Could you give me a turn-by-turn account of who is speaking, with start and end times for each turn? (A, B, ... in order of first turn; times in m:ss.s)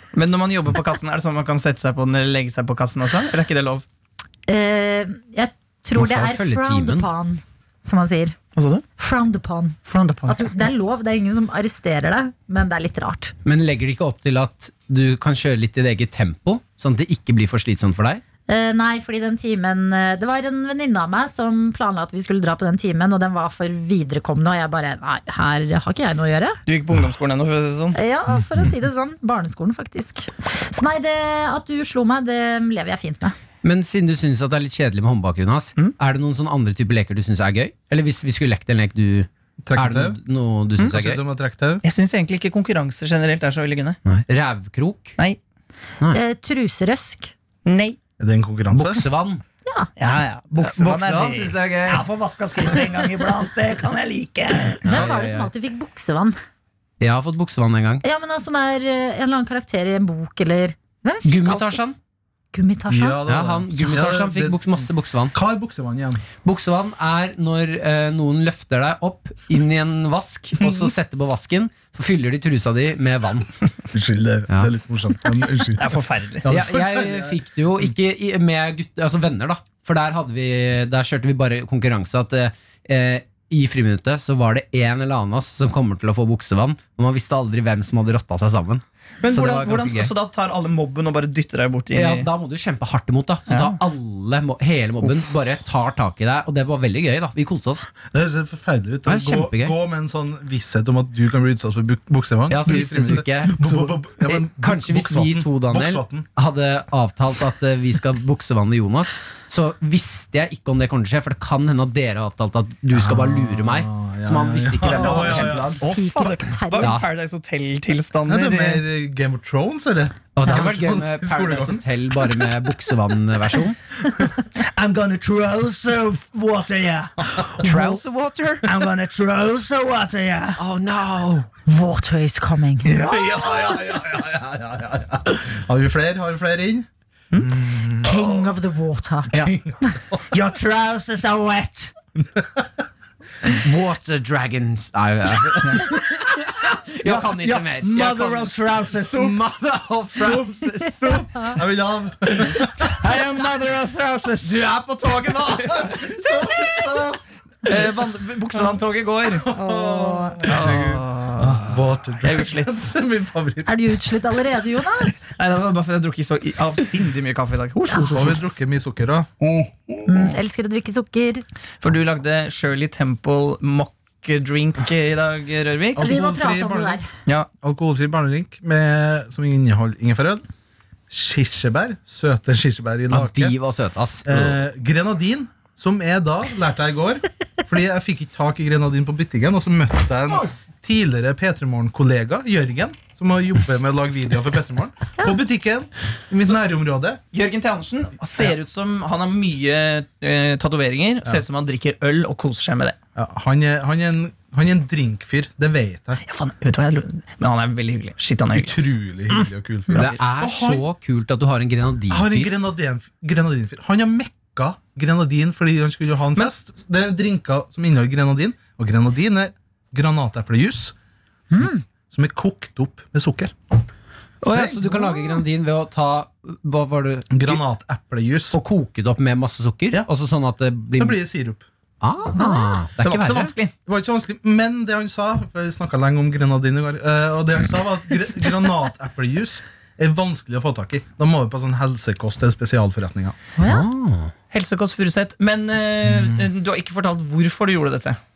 0:00.1-0:03.8 A
0:04.5-0:08.4 B
0:06.0-0:07.1 C
0:08.6-0:08.8 A
0:09.0-0:13.3 B
0:09.9-0:10.6 A
0:13.4-0:18.2 C
0:18.5-0:26.6 B
0:26.6-0:28.0 A
0:27.9-0:33.3 B
0:33.6-0:41.2 C
0:39.6-0:40.2 D
0:40.8-0:41.8 D
0:41.8-0:44.0 A
0:44.0-0:45.1 C
0:46.1-0:47.3 B
0:47.6-0:48.0 A
0:48.2-0:49.1 D
0:48.7-0:49.4 C
0:50.0-0:51.6 A
0:50.6-0:52.0 C
0:51.8-0:54.3 E
0:52.6-0:54.9 A
0:54.8-0:55.5 C
0:54.8-0:56.4 B
0:57.0-0:58.0 C
0:58.0-1:01.8 B
1:01.2-1:02.0 C
1:02.5-1:03.2 B
1:02.9-1:06.2 D
1:03.3-1:05.3 C
1:06.4-1:13.5 C
1:13.9-1:17.8 D
1:15.8-1:16.5 A
1:16.5-1:30.1 C
1:29.2-1:32.3 A
1:31.9-1:37.9 C
1:33.5-1:33.8 A
1:38.0-1:46.3 D
1:39.0-1:39.7 C
1:42.5-1:55.9 C
1:52.9-1:56.5 D
1:54.9-1:58.8 A
1:55.0-1:56.9 B
1:56.8-1:57.1 C
1:58.3-2:02.5 D
2:00.4-2:03.8 C
2:04.6-2:07.9 E
2:07.6-2:08.7 C
2:08.6-2:10.6 E
2:10.6-2:11.5 C
2:11.6-2:12.9 B
2:12.8-2:13.7 E
2:12.9-2:18.4 D
2:18.0-2:19.3 B
2:19.3-2:20.2 D
2:20.3-2:21.9 E
2:22.2-2:22.7 D
2:23.5-2:31.5 C
2:27.0-2:29.4 E
2:31.0-2:33.1 D
2:32.8-2:34.7 E
2:34.4-2:36.0 C
2:35.6-2:37.2 D
2:37.6-2:39.5 A
2:39.4-2:43.8 D
2:39.5-2:40.4 B
2:40.4-2:42.9 A
2:43.6-2:45.2 B
2:45.3-2:48.5 A
2:48.1-2:49.3 D
2:50.0-2:51.4 B
2:51.8-2:56.1 A
2:55.9-2:57.0 D
2:56.0-2:57.1 B
2:57.6-3:00.4 D
3:01.1-3:03.6 D
3:03.1-3:04.6 C
3:04.2-3:17.2 D
3:17.3-3:23.0 A
3:23.2-3:26.2 D
3:26.2-3:30.2 A
3:28.5-3:30.8 D
3:29.9-3:32.5 C
3:32.1-3:40.9 D
3:41.5-3:41.8 B
3:41.5-3:43.5 D
3:44.4-3:47.6 C
3:44.5-3:45.3 D
3:47.3-3:48.6 D
3:48.5-3:51.2 C
3:51.0-3:51.7 D
3:52.0-3:53.5 C
3:52.4-3:52.8 B
3:53.0-3:53.7 A
3:53.8-4:03.4 D
4:03.6-4:03.8 B
4:03.6-4:04.3 C
4:04.5-4:08.2 A
4:06.1-4:06.4 D